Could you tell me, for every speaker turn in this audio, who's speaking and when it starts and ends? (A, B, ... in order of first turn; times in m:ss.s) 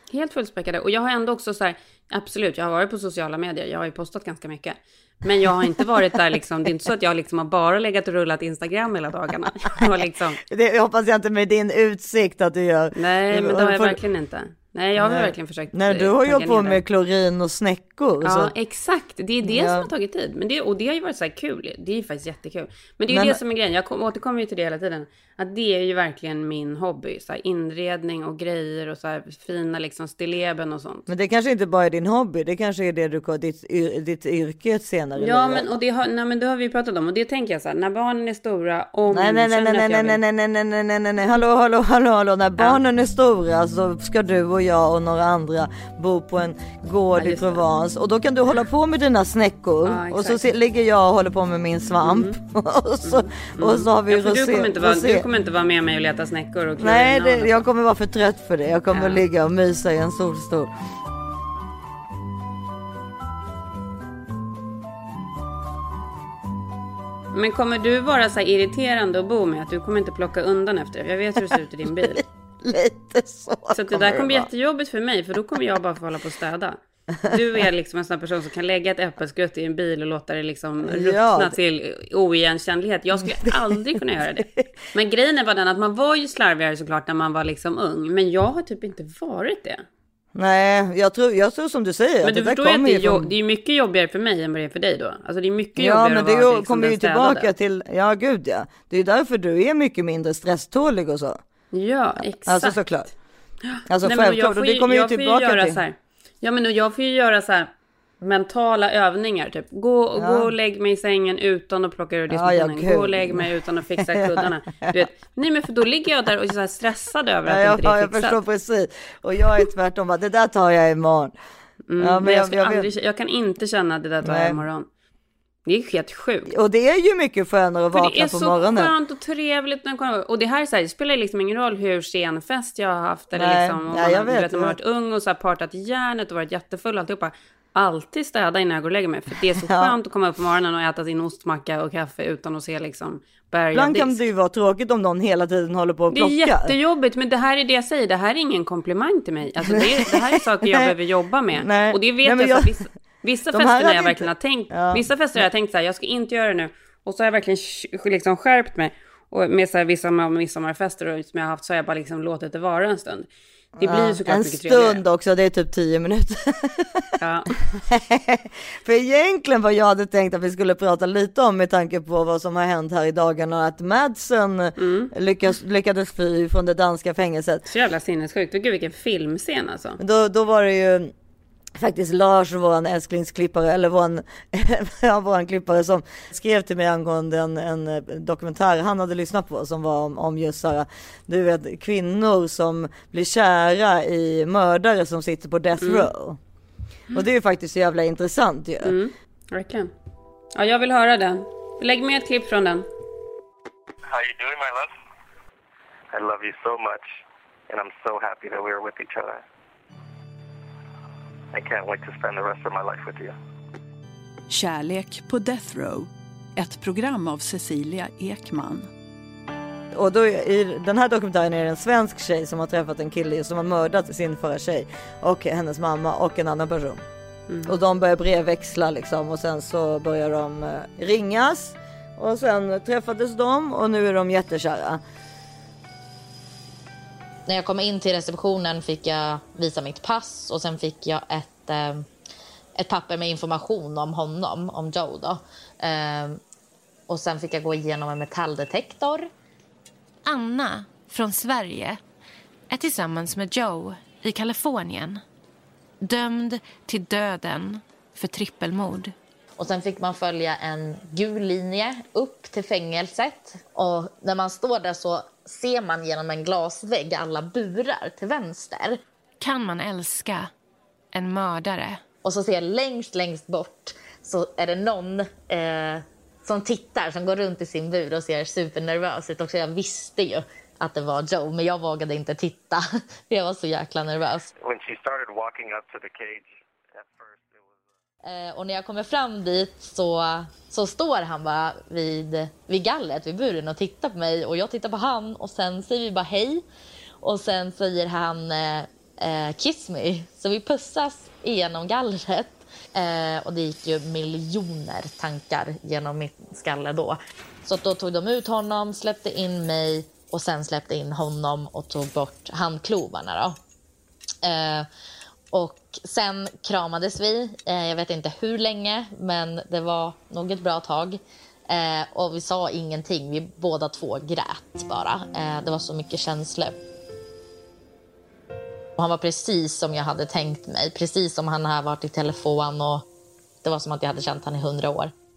0:00.1-0:10.4 A
0:10.5-0:14.0 B
0:12.9-0:16.8 A
0:15.0-0:18.5 B
0:18.2-0:31.1 A
0:19.4-0:19.9 B
0:23.1-0:23.4 B
0:31.1-0:35.6 B
0:35.2-0:40.2 A
0:39.1-0:55.2 B
0:47.1-0:47.6 A
0:49.8-0:50.4 A
0:52.0-0:52.4 A
0:53.0-0:57.6 A
0:56.8-1:00.7 B
0:58.9-0:59.2 A
1:07.3-1:12.2 A
1:12.0-1:14.5 B
1:13.7-1:29.8 A
1:20.8-1:21.6 B
1:30.4-1:33.3 B
1:32.2-1:37.5 A
1:35.8-1:41.4 B
1:41.7-1:42.9 A
1:42.5-1:43.1 B
1:43.6-1:58.4 A
1:43.9-1:45.8 B
1:50.2-1:50.5 B
1:52.3-1:53.4 B
1:54.0-1:55.0 B
1:57.4-2:01.4 B
2:01.9-2:04.9 A
2:02.0-2:02.9 B
2:04.2-2:04.6 B
2:05.6-2:06.5 A
2:06.5-2:08.9 B
2:07.9-2:24.2 A
2:13.3-2:14.7 B
2:19.6-2:19.9 B
2:23.7-2:26.7 B
2:26.1-2:43.3 A
2:29.7-2:30.9 B
2:31.5-2:32.8 B
2:33.5-2:35.0 B
2:43.8-2:47.0 B
2:43.8-2:45.0 A
2:47.2-2:47.5 A
2:47.7-2:57.6 B
2:54.8-2:55.1 A
2:57.6-3:00.0 A
3:00.0-3:01.1 B
3:01.8-3:16.4 B
3:15.8-3:16.1 A
3:17.1-3:19.0 B
3:18.8-3:19.9 A
3:20.5-3:22.8 A
3:24.1-3:24.9 C
3:26.1-3:27.0 C
3:27.7-3:29.4 C
3:31.5-3:33.3 C
3:34.5-3:38.9 D
3:39.9-3:47.0 B
3:47.5-3:47.7 A
3:47.6-3:55.0 B
3:57.5-4:02.0 E
4:02.8-4:06.4 E
4:07.1-4:09.3 E
4:10.2-4:12.0 F
4:12.7-4:15.2 F
4:16.0-4:19.1 F
4:19.6-4:29.0 E
4:29.4-4:30.5 F
4:31.1-4:32.0 F
4:32.2-4:44.5 E
4:44.6-4:46.4 C
4:48.2-4:56.6 E
4:57.2-5:13.6 E
5:14.4-5:14.9 E
5:15.5-5:26.8 E
5:29.0-5:33.0 E
5:33.6-5:35.1 E